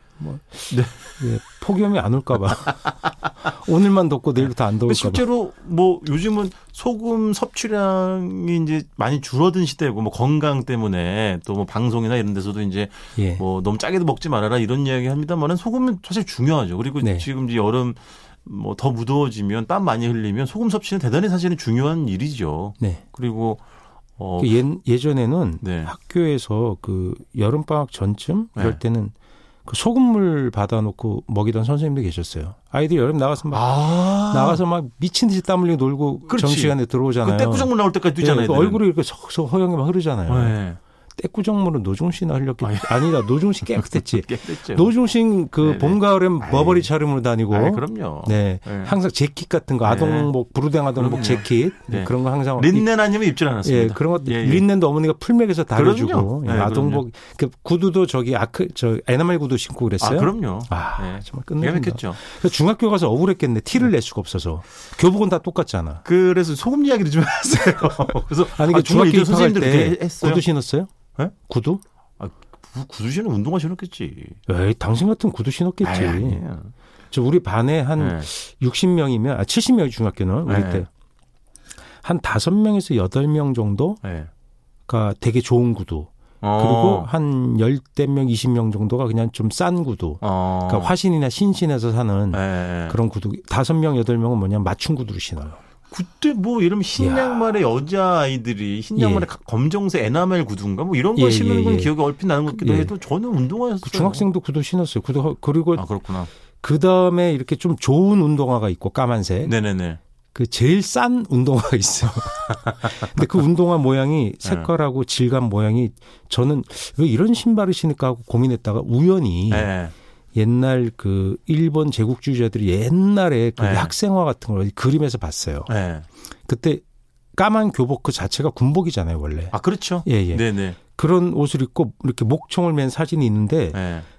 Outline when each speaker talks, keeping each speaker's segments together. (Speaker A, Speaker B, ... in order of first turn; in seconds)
Speaker A: 0.2-5.3, 13.2-13.4, 17.0-17.3, 24.4-29.1, 29.7-40.6, 41.2-53.0, 53.6-66.0, 68.5-70.9, 71.4-71.8, 74.5-76.4, 77.1-80.9, 82.0-84.0, 84.9-95.6, 97.0-97.6, 99.0-99.3, 101.2-103.0, 103.8-105.9, 106.6-109.5, 110.3-119.7, 120.3-125.7, 126.5-126.8, 127.3-133.8
Speaker B: 0.7-1.1, 4.8-23.6, 24.2-24.6, 25.6-25.9, 28.6-28.8, 33.5-34.6, 36.3-38.9, 40.3-40.8, 42.6-45.0, 45.6-46.9, 47.5-49.0, 49.8-50.3, 50.9-54.7, 55.7-57.0, 60.0-62.2, 66.0-70.5, 72.2-74.4, 75.8-76.7, 78.0-78.3, 80.5-80.9, 84.0-84.3, 86.4-87.1, 90.2-90.9, 92.3-93.0, 95.9-104.3, 105.8-106.3, 109.4-110.0, 114.4-114.7, 119.5-119.9, 123.6-123.9, 125.7-126.1, 129.5-130.8, 133.7-134.1